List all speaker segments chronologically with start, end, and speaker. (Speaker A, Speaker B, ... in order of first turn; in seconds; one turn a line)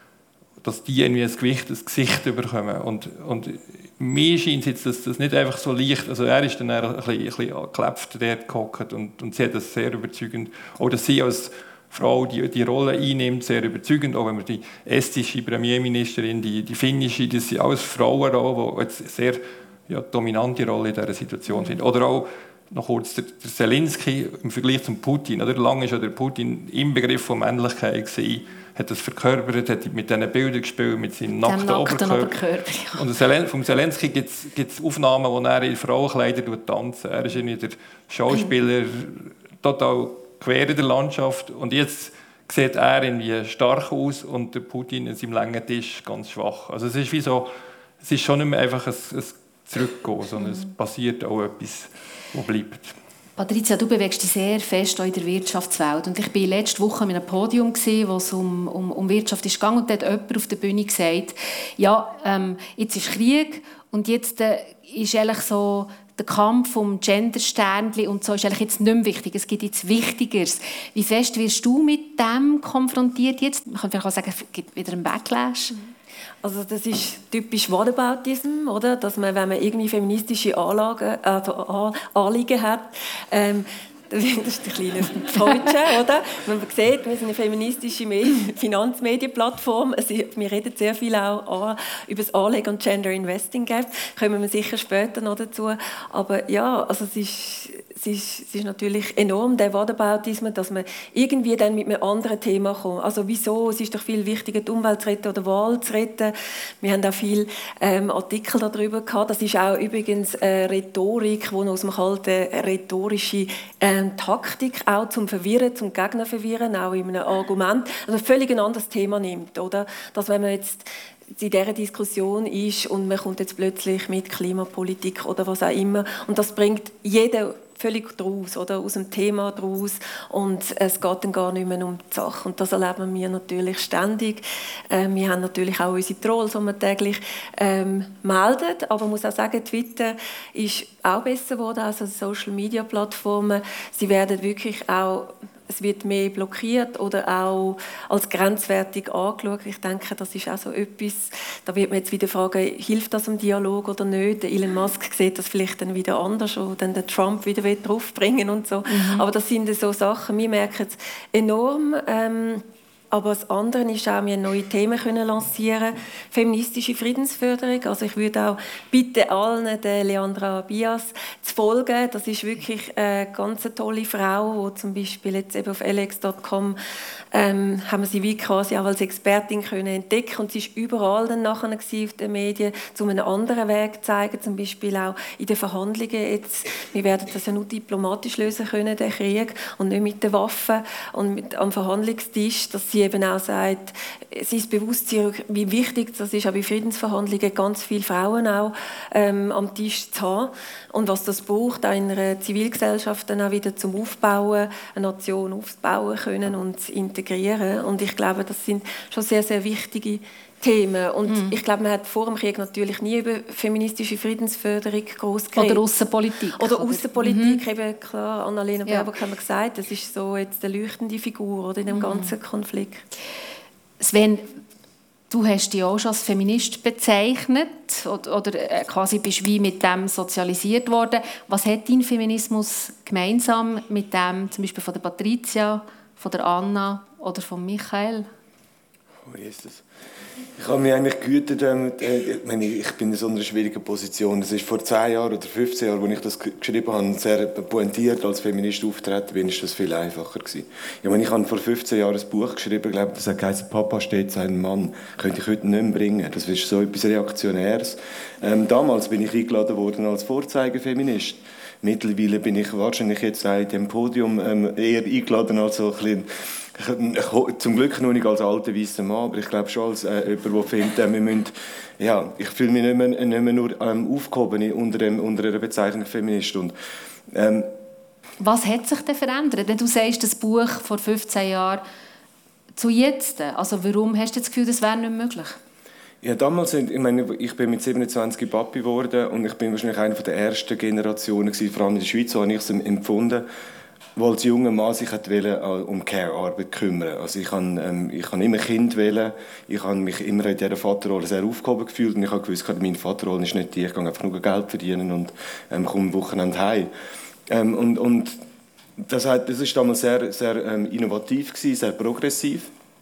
Speaker A: 0.6-32.4
Speaker B: 31.4-33.1
Speaker A: 33.0-53.0
Speaker B: 53.4-75.8
Speaker C: 76.4-176.8
Speaker B: 158.9-159.3
Speaker C: 177.3-215.8
Speaker B: 211.3-211.6
Speaker B: 215.6-217.6
Speaker C: 216.6-223.1
Speaker B: 221.9-222.3
Speaker B: 224.0-224.6
Speaker B: 225.3-238.3
Speaker D: 239.2-239.8
Speaker D: 240.6-276.8
Speaker D: 277.3-277.7
Speaker B: 278.4-281.8
Speaker B: 282.8-285.6
Speaker D: 286.2-293.5
Speaker D: 294.2-306.9
Speaker D: 307.5-308.4
Speaker D: 309.0-312.7